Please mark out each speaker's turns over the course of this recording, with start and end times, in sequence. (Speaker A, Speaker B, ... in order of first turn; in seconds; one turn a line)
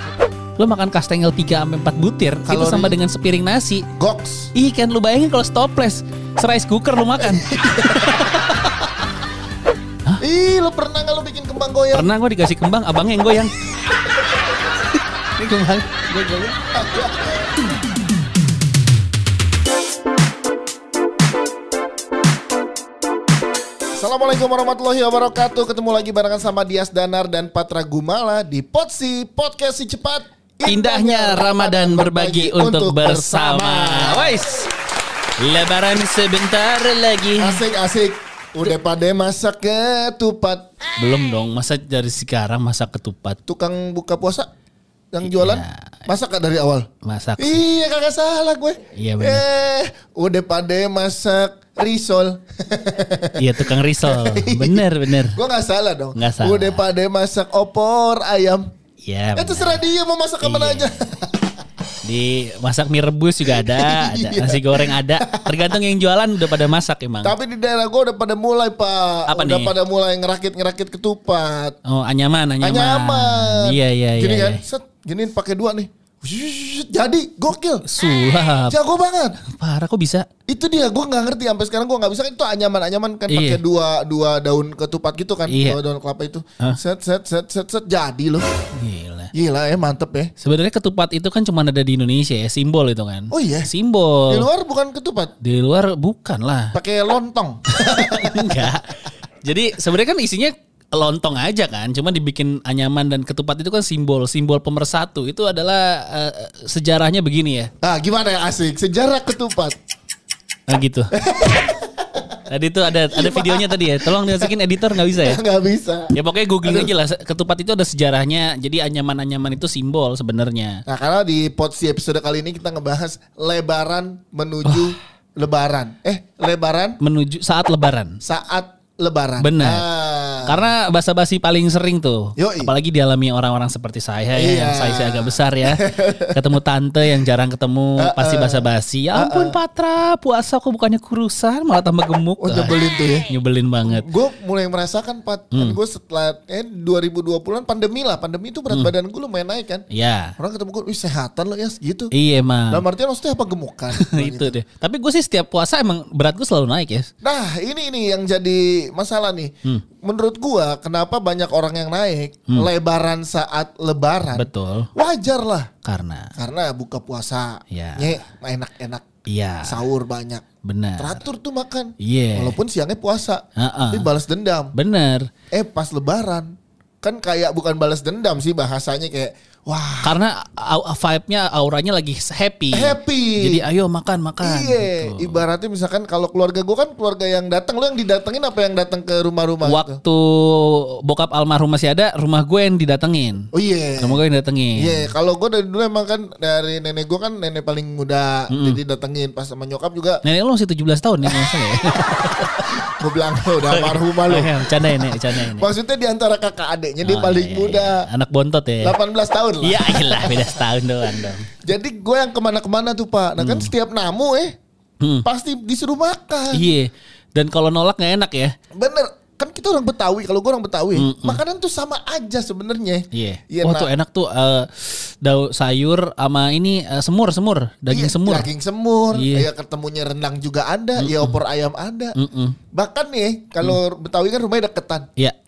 Speaker A: 0.6-3.9
Speaker B: 2.5-3.0
Speaker B: 4.0-4.5
Speaker A: 4.5-8.9
Speaker B: 7.2-8.5
Speaker B: 10.2-12.1
Speaker A: 11.9-13.5
Speaker A: 15.4-16.6
Speaker B: 16.7-17.6
Speaker B: 24.0-34.6
Speaker A: 30.6-34.7
Speaker A: 35.4-37.6
Speaker B: 37.4-40.7
Speaker A: 41.0-43.4
Speaker B: 43.5-44.5
Speaker B: 45.1-46.9
Speaker A: 45.2-46.0
Speaker A: 47.0-47.6
Speaker B: 47.4-58.6
Speaker A: 48.9-49.4
Speaker A: 53.4-55.4
Speaker A: 56.1-56.8
Speaker A: 59.0-59.8
Speaker B: 59.3-61.5
Speaker A: 60.4-60.9
Speaker A: 62.0-67.3
Speaker B: 63.5-65.8
Speaker B: 67.2-71.8
Speaker A: 69.3-69.7
Speaker A: 71.8-74.6
Speaker B: 72.6-77.8
Speaker A: 77.8-78.8
Speaker B: 78.7-79.4
Speaker A: 79.4-80.2
Speaker B: 80.5-88.5
Speaker A: 83.3-83.6
Speaker A: 85.5-85.8
Speaker A: 88.8-89.3
Speaker B: 89.3-90.3
Speaker A: 90.4-94.5
Speaker B: 93.3-93.7
Speaker B: 94.3-95.3
Speaker A: 95.4-96.7
Speaker B: 96.7-98.7
Speaker A: 97.8-107.7
Speaker B: 107.8-109.7
Speaker A: 110.7-111.1
Speaker B: 111.1-112.4
Speaker A: 112.5-115.4
Speaker B: 113.0-116.9
Speaker A: 116.1-120.8
Speaker B: 120.8-127.0
Speaker A: 124.6-125.0
Speaker A: 127.0-128.2
Speaker B: 128.2-130.7
Speaker A: 129.4-129.9
Speaker A: 130.4-142.8
Speaker B: 132.4-132.7
Speaker B: 134.3-136.3
Speaker B: 138.0-139.6
Speaker B: 142.4-143.3
Speaker A: 143.3-144.1
Speaker B: 143.8-149.8
Speaker A: 149.9-150.3
Speaker B: 150.4-152.1
Speaker A: 152.1-152.8
Speaker B: 152.7-154.6
Speaker A: 153.9-157.1
Speaker B: 157.2-165.7
Speaker A: 164.3-164.9
Speaker A: 165.8-166.3
Speaker B: 166.3-169.0
Speaker A: 167.7-168.2
Speaker A: 169.2-169.8
Speaker B: 169.6-170.4
Speaker A: 170.6-171.2
Speaker B: 171.0-174.7
Speaker A: 172.0-172.6
Speaker A: 173.6-174.1
Speaker A: 174.7-175.3
Speaker B: 175.5-180.1
Speaker A: 180.0-185.4
Speaker B: 182.7-183.6
Speaker B: 184.4-190.0
Speaker A: 189.6-193.5
Speaker B: 193.5-194.2
Speaker A: 194.0-195.1
Speaker B: 194.8-200.2
Speaker A: 198.5-198.8
Speaker A: 200.2-202.6
Speaker B: 201.3-201.5
Speaker B: 202.1-208.1
Speaker A: 203.6-205.7
Speaker A: 207.0-208.9
Speaker B: 208.8-210.6
Speaker A: 209.6-211.5
Speaker B: 211.2-214.5
Speaker A: 213.4-213.7
Speaker B: 215.2-216.6
Speaker A: 216.5-218.5
Speaker B: 218.7-223.9
Speaker A: 220.9-221.4
Speaker A: 223.1-228.5
Speaker B: 227.9-232.2
Speaker A: 229.1-229.5
Speaker A: 231.0-231.4
Speaker A: 232.2-232.6
Speaker B: 232.7-235.1